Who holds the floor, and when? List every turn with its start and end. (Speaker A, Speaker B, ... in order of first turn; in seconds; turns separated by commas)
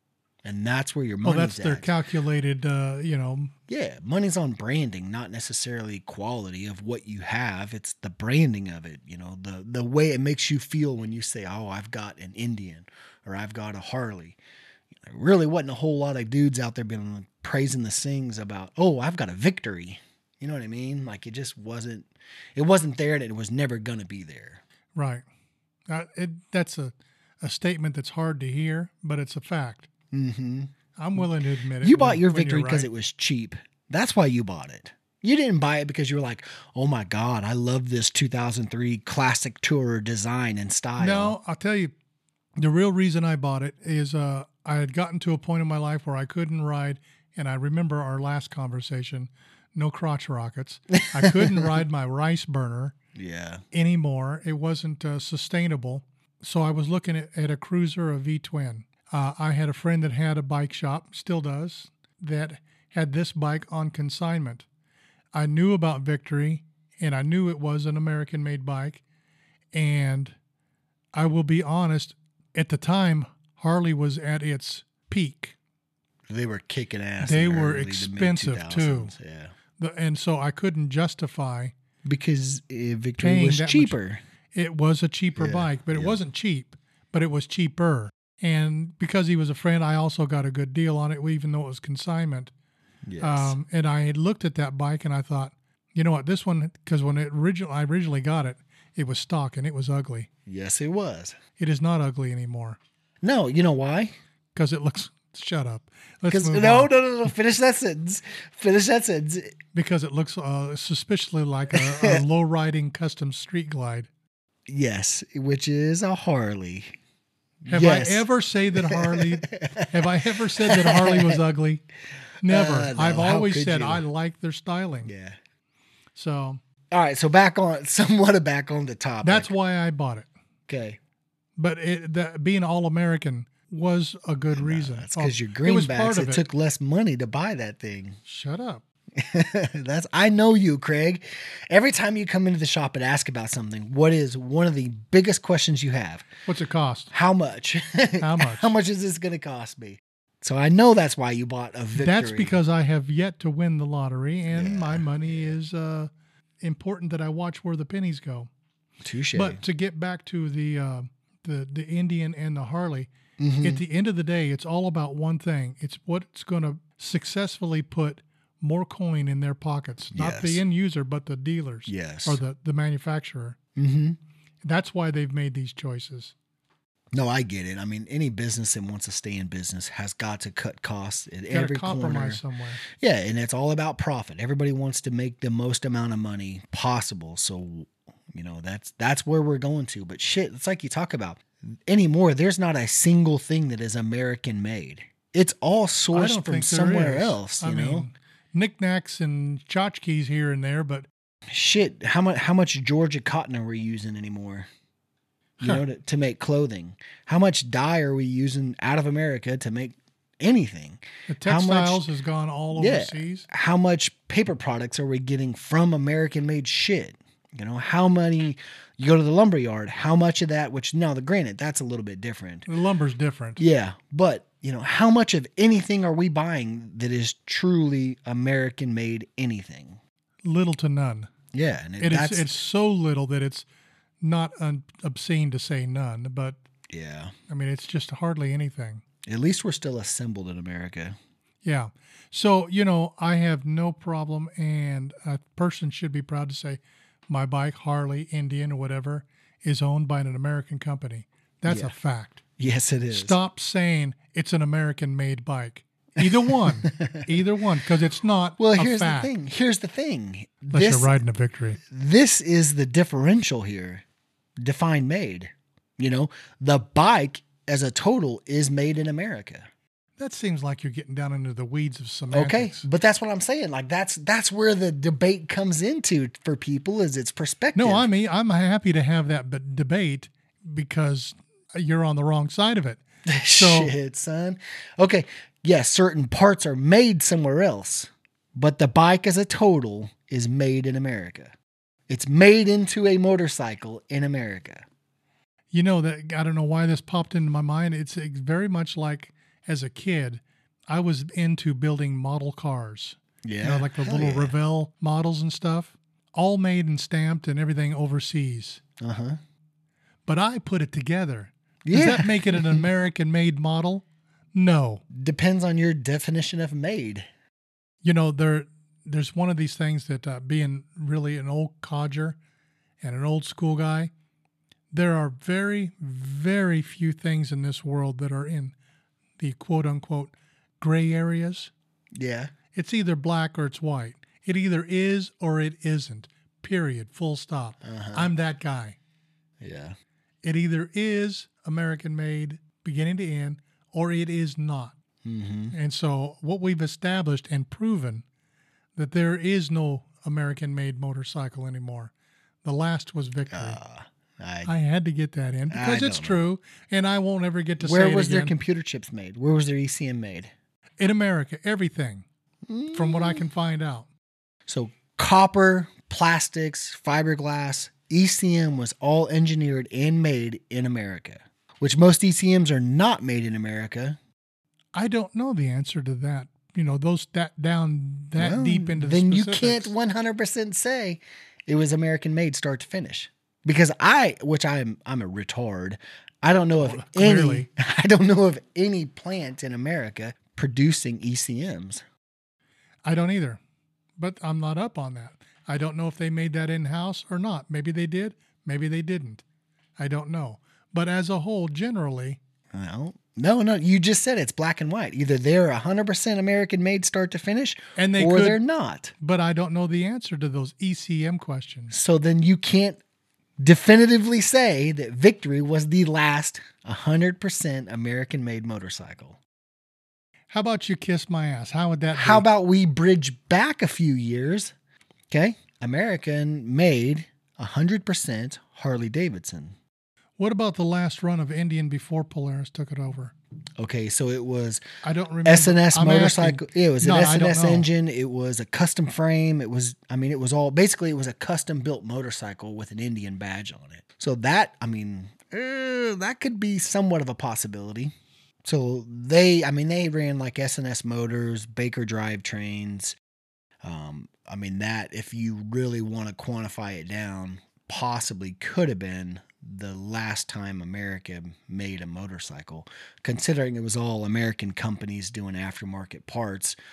Speaker A: 0.4-1.9, Speaker B: 1.2-3.5, Speaker A: 3.7-14.4, Speaker A: 15.0-24.6, Speaker B: 24.9-25.2, Speaker B: 25.9-29.9, Speaker A: 30.1-31.2, Speaker B: 31.0-32.9, Speaker A: 31.8-41.4, Speaker B: 41.0-41.9, Speaker B: 42.6-53.0, Speaker A: 51.1-51.7, Speaker A: 53.1-53.6, Speaker B: 53.7-64.7, Speaker B: 65.3-69.0, Speaker B: 69.7-70.3, Speaker B: 71.1-75.6, Speaker A: 76.3-79.5, Speaker B: 77.2-79.1, Speaker B: 79.8-81.7, Speaker A: 82.0-84.2, Speaker B: 83.2-84.0, Speaker B: 84.5-92.5, Speaker A: 85.4-86.2, Speaker A: 93.0-93.6, Speaker B: 93.2-100.3, Speaker A: 100.5-101.4, Speaker B: 101.6-102.8, Speaker A: 103.2-104.1, Speaker B: 104.5-106.9, Speaker A: 106.3-109.6, Speaker B: 109.7-114.1, Speaker A: 111.7-112.2, Speaker A: 114.7-117.0, Speaker A: 117.6-121.4, Speaker B: 117.7-121.8, Speaker B: 122.4-125.1, Speaker A: 122.4-124.0, Speaker A: 125.0-125.4, Speaker B: 126.2-126.6, Speaker A: 126.9-129.5, Speaker B: 129.2-130.3, Speaker A: 130.7-131.0, Speaker B: 131.6-136.4, Speaker A: 134.5-138.2, Speaker B: 138.3-138.8, Speaker A: 139.2-146.3, Speaker B: 146.5-147.1, Speaker A: 147.1-152.6, Speaker B: 148.2-148.7, Speaker B: 152.0-156.1, Speaker A: 154.5-155.6, Speaker B: 156.6-158.5, Speaker A: 159.0-159.6, Speaker B: 159.3-173.6, Speaker A: 163.4-163.8, Speaker A: 170.1-170.6, Speaker A: 171.9-172.4, Speaker A: 173.8-174.2, Speaker B: 174.6-176.3, Speaker A: 177.1-198.1, Speaker B: 181.5-182.8, Speaker B: 196.1-201.1, Speaker A: 201.5-204.7, Speaker A: 205.6-212.1, Speaker B: 211.3-213.5, Speaker A: 212.8-222.7, Speaker B: 222.7-223.6, Speaker A: 223.6-230.0, Speaker B: 230.4-231.3, Speaker A: 231.5-232.5, Speaker B: 232.0-233.7, Speaker B: 234.2-236.6, Speaker A: 236.9-237.3, Speaker B: 237.5-239.0, Speaker A: 239.2-241.2, Speaker B: 241.6-252.4, Speaker A: 251.7-251.9, Speaker A: 252.6-253.4, Speaker B: 253.1-259.3, Speaker A: 256.2-257.3, Speaker A: 258.6-261.2, Speaker B: 260.7-261.8, Speaker A: 261.9-264.0, Speaker A: 264.6-269.7, Speaker B: 270.2-272.9, Speaker A: 272.3-278.1, Speaker B: 277.8-283.9, Speaker A: 283.3-291.5, Speaker A: 292.1-294.9, Speaker B: 295.7-308.8, Speaker A: 303.4-304.6, Speaker A: 309.0-309.4, Speaker B: 310.3-315.0, Speaker A: 311.8-312.9, Speaker A: 315.1-317.3, Speaker B: 318.0-322.4, Speaker B: 323.0-324.1, Speaker B: 324.9-328.8, Speaker B: 329.4-331.7, Speaker A: 332.1-332.5, Speaker B: 332.7-339.0, Speaker A: 337.8-338.3, Speaker A: 339.6-340.0, Speaker B: 340.4-344.9, Speaker A: 345.2-345.8, Speaker B: 345.7-348.2, Speaker B: 349.0-352.1, Speaker B: 352.6-353.8, Speaker A: 353.5-354.7, Speaker B: 354.6-358.5, Speaker A: 355.7-356.4, Speaker A: 357.8-360.5, Speaker B: 361.0-362.2, Speaker A: 362.7-363.4, Speaker B: 362.9-364.1, Speaker A: 364.7-374.2, Speaker B: 374.9-379.9, Speaker A: 378.4-392.0, Speaker B: 386.8-387.7, Speaker B: 393.1-393.6, Speaker B: 394.2-399.4, Speaker B: 400.0-402.4, Speaker A: 402.7-409.1, Speaker B: 408.0-408.6, Speaker B: 409.2-411.9, Speaker A: 411.9-413.0, Speaker A: 413.6-419.4, Speaker B: 420.5-422.5, Speaker A: 422.1-424.7, Speaker A: 425.3-429.8, Speaker B: 430.4-433.3, Speaker A: 433.8-434.8, Speaker B: 435.0-437.9, Speaker A: 435.4-448.1, Speaker A: 448.6-453.2, Speaker A: 453.8-466.8